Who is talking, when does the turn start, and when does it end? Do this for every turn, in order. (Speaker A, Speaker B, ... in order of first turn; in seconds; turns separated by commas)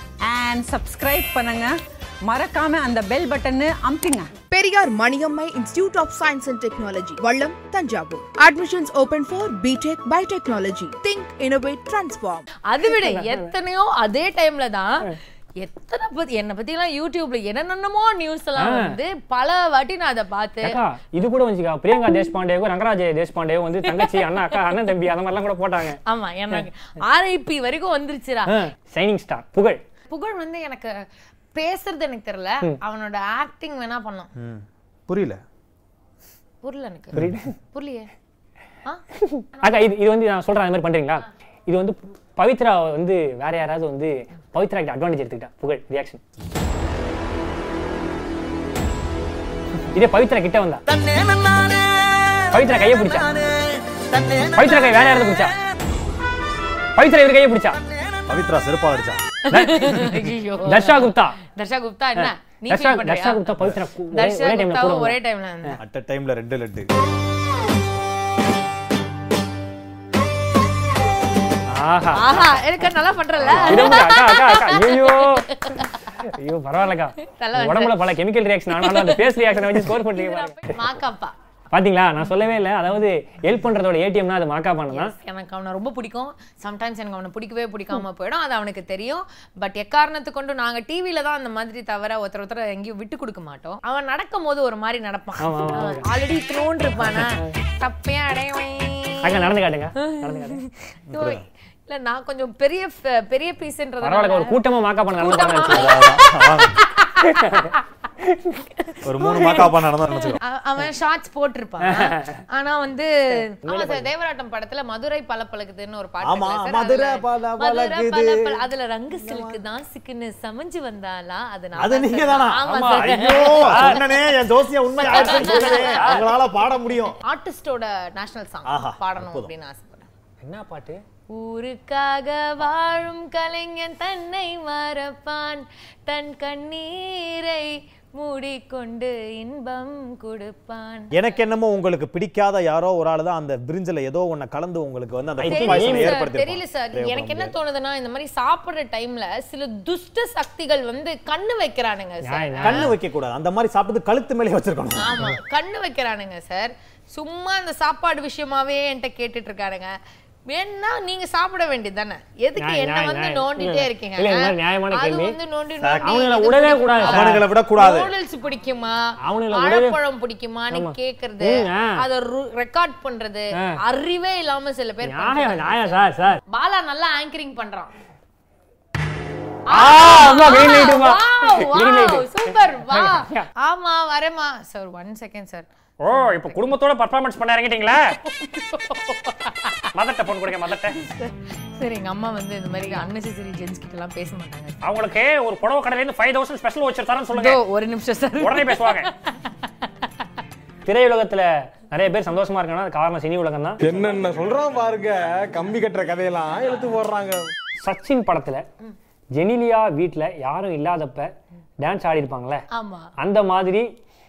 Speaker A: 0.2-1.7, Speaker A: 2.3-4.3, Speaker B: 4.5-12.4, Speaker C: 12.7-20.8, Speaker D: 12.9-13.4, Speaker D: 18.6-18.9, Speaker D: 20.6-26.0, Speaker C: 23.9-24.7, Speaker C: 26.0-28.7, Speaker D: 28.5-29.8, Speaker C: 30.1-30.9, Speaker C: 31.5-34.3, Speaker E: 34.4-35.4, Speaker C: 36.6-38.1, Speaker D: 37.2-37.5, Speaker D: 39.2-46.2, Speaker D: 49.9-50.8, Speaker D: 52.5-53.3, Speaker D: 54.3-55.5, Speaker D: 57.0-57.8, Speaker E: 58.3-59.2, Speaker C: 59.5-65.8, Speaker D: 59.5-61.4, Speaker D: 62.2-65.2, Speaker E: 65.8-66.9, Speaker D: 71.7-72.4, Speaker C: 72.1-76.0, Speaker E: 73.4-73.8, Speaker D: 73.5-75.5, Speaker D: 76.2-80.8, Speaker C: 77.3-78.1, Speaker C: 78.7-81.3, Speaker D: 81.7-85.1, Speaker C: 84.9-107.7, Speaker D: 95.4-96.1, Speaker D: 97.0-97.4, Speaker D: 99.2-100.6, Speaker E: 101.1-101.4, Speaker D: 104.0-106.0, Speaker E: 105.7-106.8, Speaker D: 107.3-107.7, Speaker D: 108.2-108.6, Speaker E: 109.0-110.4, Speaker C: 109.4-124.0, Speaker D: 111.8-112.3, Speaker D: 113.6-114.1, Speaker E: 116.2-118.6, Speaker E: 119.2-119.6, Speaker E: 121.8-127.2, Speaker D: 122.6-124.1, Speaker C: 125.0-126.4, Speaker D: 125.0-126.2, Speaker C: 127.2-130.1, Speaker E: 128.6-129.5, Speaker D: 130.4-131.0, Speaker C: 131.3-141.1, Speaker E: 141.1-147.6, Speaker D: 145.4-146.2, Speaker C: 145.5-152.9, Speaker D: 152.2-152.9, Speaker E: 152.6-155.1, Speaker C: 155.0-159.9, Speaker C: 160.5-175.9, Speaker D: 162.6-165.4, Speaker E: 165.8-166.2, Speaker D: 166.1-167.4, Speaker E: 167.0-168.1, Speaker D: 169.2-170.0, Speaker D: 170.7-172.0, Speaker D: 173.5-173.8, Speaker D: 175.0-176.4, Speaker C: 176.5-177.9, Speaker D: 179.7-183.4, Speaker C: 179.7-186.6, Speaker D: 186.0-188.2, Speaker C: 188.4-189.8, Speaker D: 189.9-191.0, Speaker C: 191.0-194.8, Speaker D: 194.8-197.6, Speaker C: 197.3-199.2, Speaker D: 198.4-199.1, Speaker D: 200.8-203.8, Speaker F: 203.8-207.5, Speaker D: 207.8-208.6, Speaker D: 209.3-212.6, Speaker C: 212.7-213.1, Speaker D: 213.2-213.8